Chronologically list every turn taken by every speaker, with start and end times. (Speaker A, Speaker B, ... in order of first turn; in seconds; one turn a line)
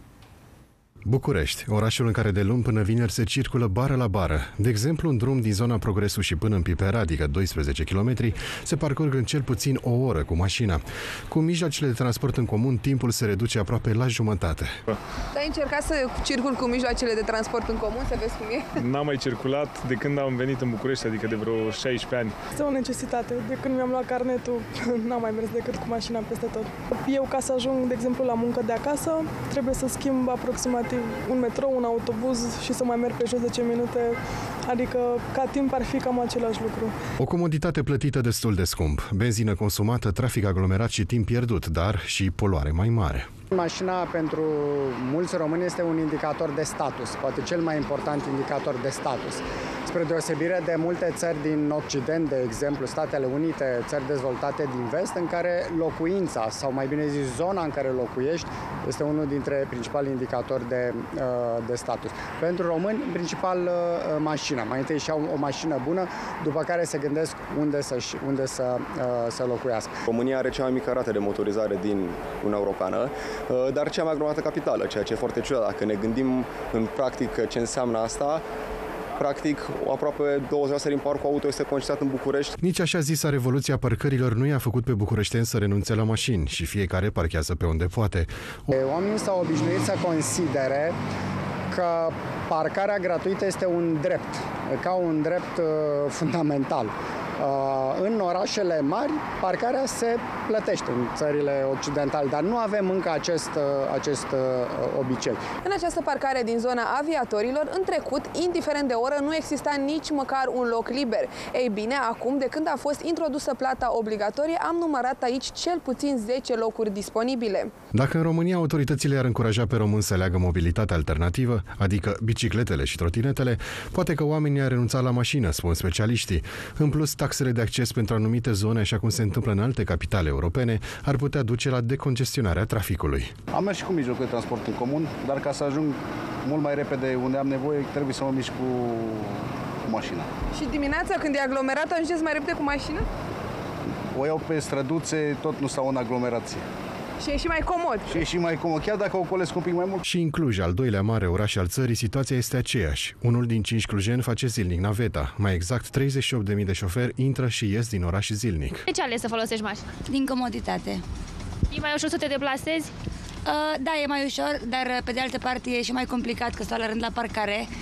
Speaker A: 1.0-14.7
Speaker B: 15.3-18.8
Speaker C: 18.8-22.4
Speaker D: 22.6-34.1
Speaker D: 34.7-36.9
Speaker A: 37.2-43.3
Speaker E: 43.5-69.9
Speaker F: 70.1-78.4
Speaker F: 79.2-82.5
Speaker A: 82.6-88.7
Speaker E: 88.7-90.9
Speaker E: 91.7-105.5
Speaker B: 105.6-117.7
Speaker A: 117.9-133.3
Speaker G: 133.5-140.3
Speaker B: 140.5-143.1
Speaker G: 144.1-146.6
Speaker B: 147.2-148.2
Speaker G: 148.1-150.0
Speaker A: 150.0-158.8
Speaker H: 158.9-159.9
Speaker I: 160.0-161.0
Speaker H: 161.7-162.9
Speaker I: 163.4-167.7